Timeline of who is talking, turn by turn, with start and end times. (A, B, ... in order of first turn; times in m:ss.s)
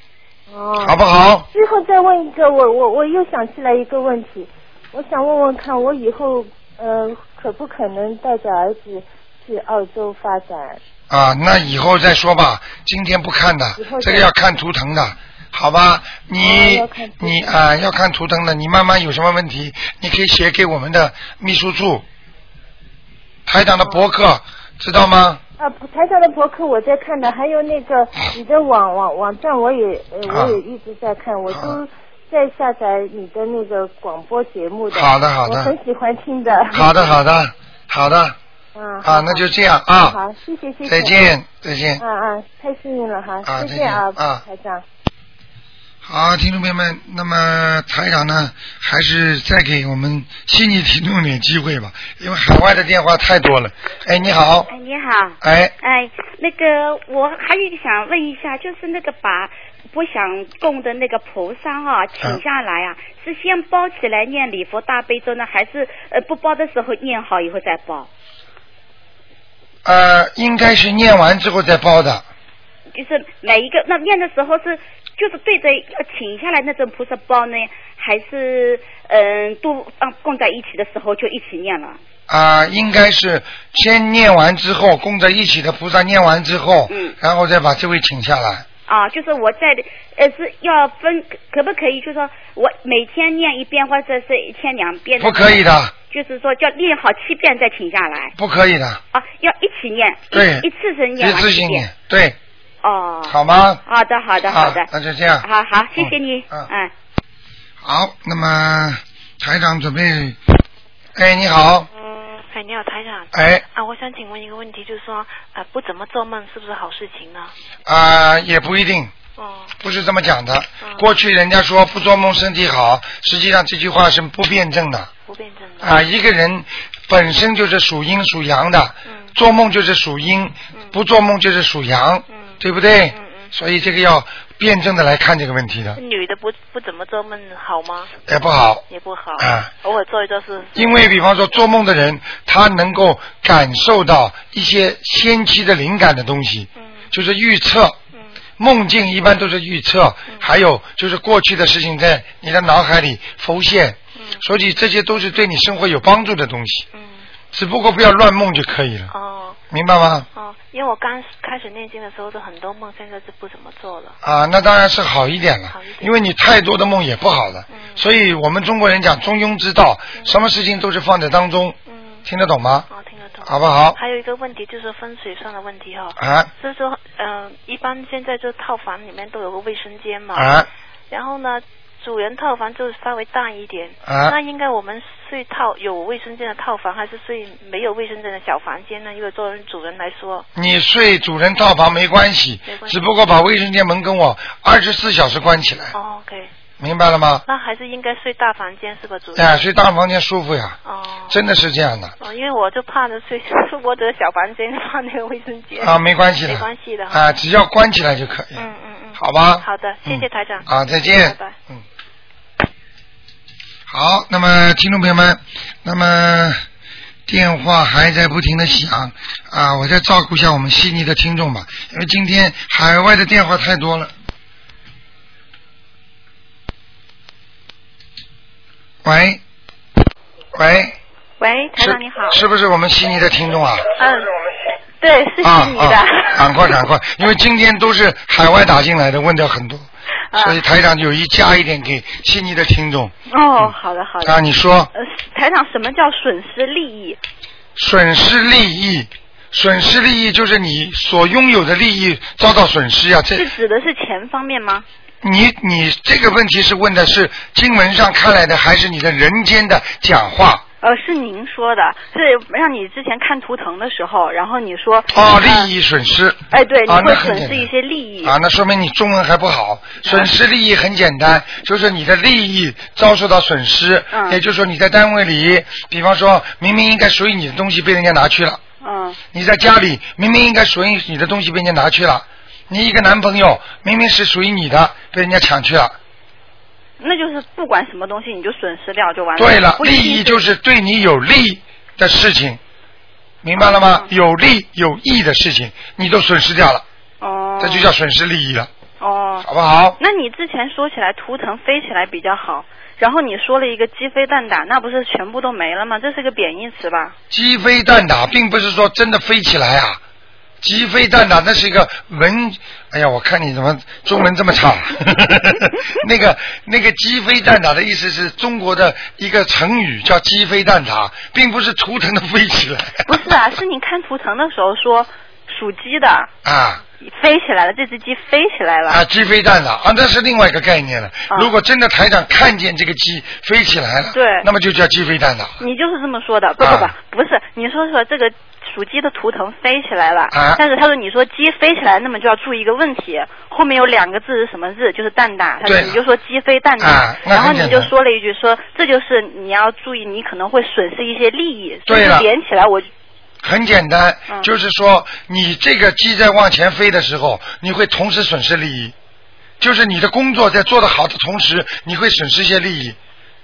0:00.5-0:01.0 A
0:00.8-0:01.5 B
0:01.5-0:10.8 A
0:11.1-0:22.0 B
0:13.8-0:14.3 A
0:16.4-0:17.6 A
0:23.4-0:25.4 B
0:23.8-0:24.0 A
0:25.6-0:37.1 A
0:30.3-0:30.6 B
0:31.5-0:31.8 B
0:34.9-0:35.7 B
0:36.7-0:38.4 B
0:38.7-0:41.2 A
0:39.0-0:40.2 B
0:40.8-0:42.0 B
0:42.0-0:44.8 A
0:43.4-0:44.4 B
0:46.0-0:54.7 B
0:54.7-1:08.1 C
0:55.4-0:55.7 B
1:09.8-1:12.2 B
1:12.9-1:22.0 C
1:22.3-1:28.6 B
1:26.9-1:27.1 C
1:28.9-1:38.3 C
1:35.2-1:35.9 B
1:38.4-1:39.0 B
1:39.1-1:41.9 C
1:40.3-1:40.7 B
1:41.2-1:42.4 B
1:42.8-1:44.9 C
1:43.2-1:43.8 B
1:44.4-1:45.4 B
1:45.4-1:46.9 C
1:46.0-1:46.7 B
1:47.8-1:50.4 B
1:51.1-1:51.9 B
1:52.0-1:57.5 D
1:53.3-1:53.6 B
1:57.8-1:59.1 B
1:59.4-1:59.7 D
1:59.8-2:05.1 B
2:00.8-2:01.0 D
2:05.3-2:06.0 D
2:05.8-2:16.0 B
2:09.0-2:09.4 D
2:12.3-2:13.5 D
2:15.9-2:18.1 D
2:18.3-2:18.8 B
2:18.9-2:21.1 D
2:19.4-2:19.7 B
2:20.7-2:28.0 B
2:26.8-2:27.1 D
2:28.6-2:36.8 B
2:34.2-2:34.4 D
2:36.9-2:37.2 D
2:37.5-2:39.1 B
2:39.1-2:39.6 D
2:39.7-2:40.3 B
2:40.3-2:44.2 D
2:44.2-2:52.9 B
2:45.7-2:46.1 D
2:47.7-2:48.1 D
2:51.8-2:52.2 D
2:52.9-3:10.5 D
2:53.4-2:54.0 B
2:56.2-2:56.5 B
3:00.3-3:00.7 B
3:04.0-3:04.4 B
3:10.6-3:15.9 B
3:12.6-3:13.0 D
3:15.9-3:16.5 D
3:16.8-3:17.4 B
3:17.4-3:19.6 D
3:19.3-3:20.8 B
3:20.8-3:21.4 D
3:21.3-3:22.1 B
3:22.2-3:27.2 D
3:25.8-3:28.6 B
3:28.5-3:31.6 D
3:29.2-3:31.8 B
3:33.9-3:36.6 B
3:37.3-3:44.1 B
3:49.0-3:49.4 B
3:50.5-3:51.0 B
3:51.4-3:52.4 E
3:51.8-3:53.8 B
3:54.0-3:54.3 E
3:55.0-3:56.7 E
3:55.4-4:04.9 B
4:00.3-4:00.6 E
4:03.3-4:04.4 E
4:04.9-4:07.2 E
4:07.8-4:13.5 B
4:13.3-4:14.8 E
4:15.2-4:20.6 B
4:20.8-4:25.7 E
4:25.1-4:27.7 B
4:26.5-4:28.4 E
4:28.2-4:38.6 B
4:30.0-4:30.3 E
4:34.1-4:34.4 E
4:38.8-4:39.2 E
4:39.3-4:46.0 B
4:47.0-4:50.4 E
4:49.4-4:52.6 B
4:53.4-4:56.8 B
4:53.6-4:54.1 E
4:57.2-4:57.9 E
4:57.6-4:58.7 B
4:59.0-4:59.5 E
4:59.4-5:00.0 B
5:00.0-5:07.2 E
5:07.3-5:10.0 B
5:10.6-5:23.2 B
5:23.0-5:26.3 E
5:26.4-5:26.8 B
5:27.0-5:29.0 E
5:28.9-5:35.6 B
5:34.1-5:34.5 E
5:35.6-5:52.9 E
5:36.6-5:36.9 B
5:40.3-5:40.6 B
5:45.6-5:46.0 B
5:46.8-5:47.9 B
5:51.9-5:52.3 B
5:53.4-5:58.9 B
5:59.6-6:03.0 B